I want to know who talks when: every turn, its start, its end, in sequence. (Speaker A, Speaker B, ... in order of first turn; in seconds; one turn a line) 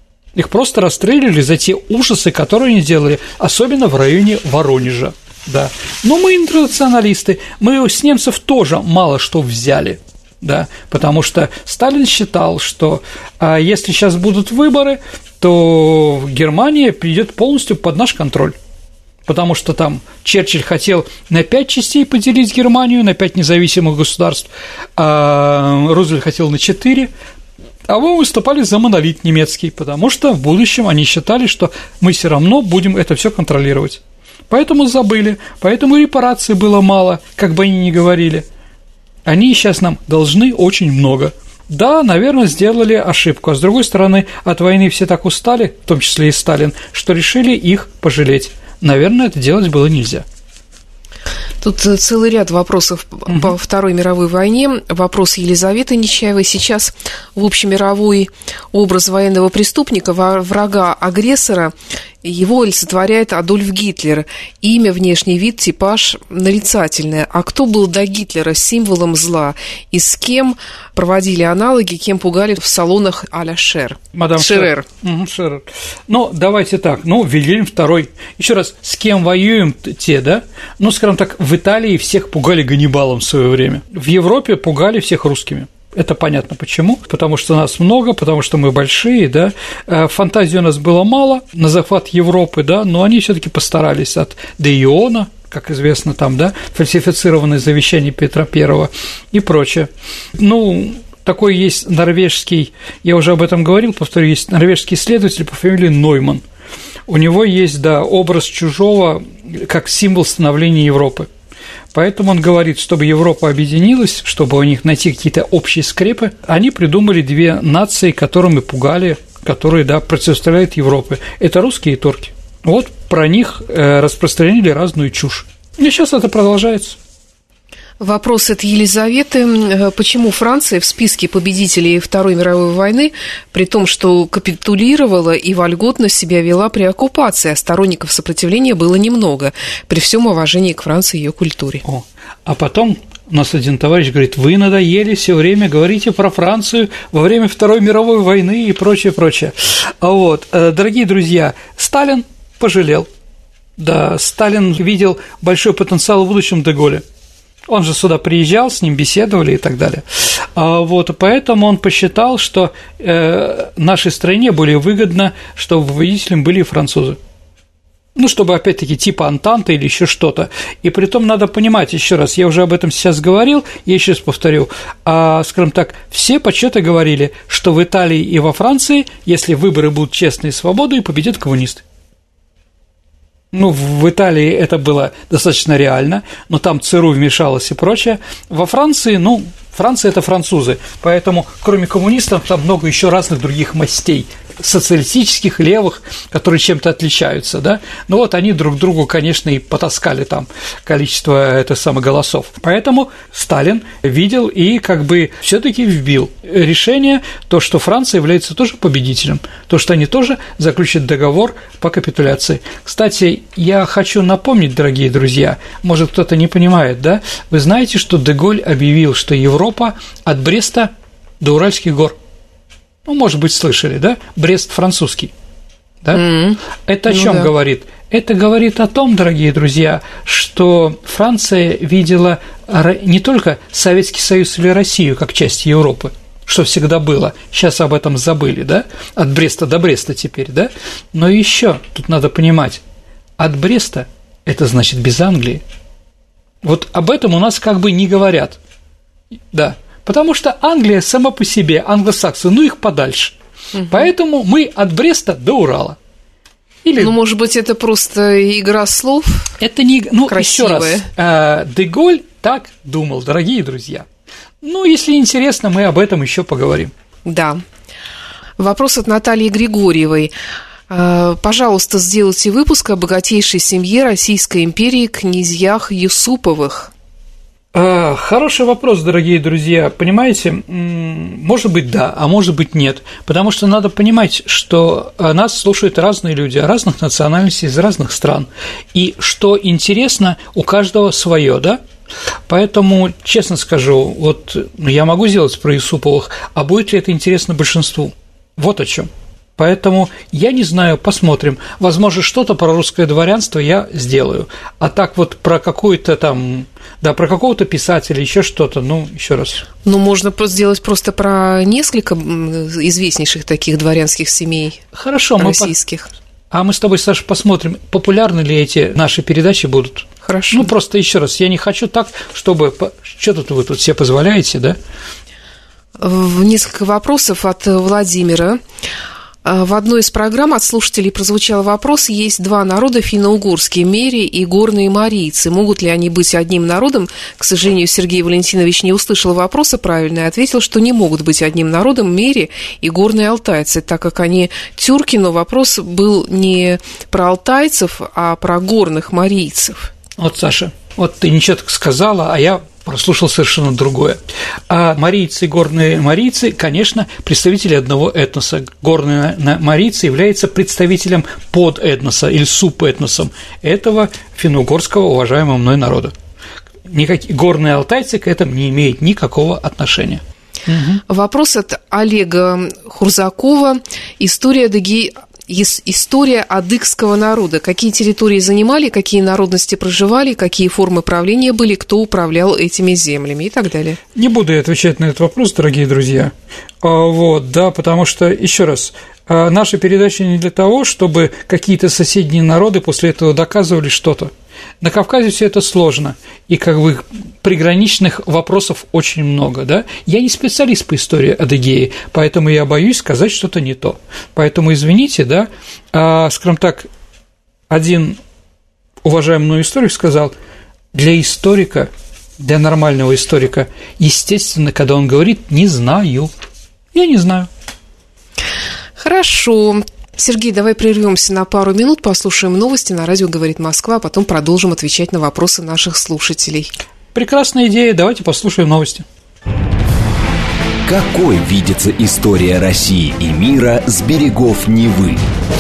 Speaker A: 0.3-18.6
Speaker A: 19.3-27.1
Speaker A: 27.9-38.5
Speaker A: 39.3-50.3
Speaker B: 51.6-74.9
Speaker A: 53.3-53.5
Speaker A: 74.1-106.4
Speaker A: 107.1-111.3
Speaker A: 111.9-127.0
Speaker B: 128.0-141.8
Speaker A: 141.8-153.1
Speaker A: 153.8-157.0
Speaker A: 157.7-167.2
Speaker A: 168.2-181.8
Speaker A: 183.5-222.2
Speaker A: 223.1-225.3
Speaker B: 226.1-227.5
Speaker A: 226.8-242.8
Speaker A: 243.4-245.6
Speaker A: 246.6-248.6
Speaker A: 249.5-256.0
Speaker A: 256.9-257.1
Speaker B: 257.0-259.5
Speaker A: 259.6-264.1
Speaker B: 260.3-261.1
Speaker A: 264.6-266.9
Speaker B: 267.2-267.6
Speaker B: 268.6-270.3
Speaker B: 270.9-276.9
Speaker A: 277.7-291.8
Speaker A: 292.5-309.7
Speaker B: 309.8-314.8
Speaker A: 314.9-315.7
Speaker B: 315.4-316.1
Speaker A: 316.5-324.8
Speaker B: 320.2-320.7
Speaker B: 326.0-328.6
Speaker B: 329.4-349.9
Speaker A: 350.2-366.1
Speaker A: 366.9-371.0
Speaker B: 371.1-384.0
Speaker A: 384.1-406.9
Speaker A: 407.7-408.2
Speaker A: 409.0-410.3
Speaker A: 410.9-416.3
Speaker A: 416.9-417.5
Speaker B: 419.0-426.7
Speaker A: 427.1-429.1
Speaker C: 430.9-435.2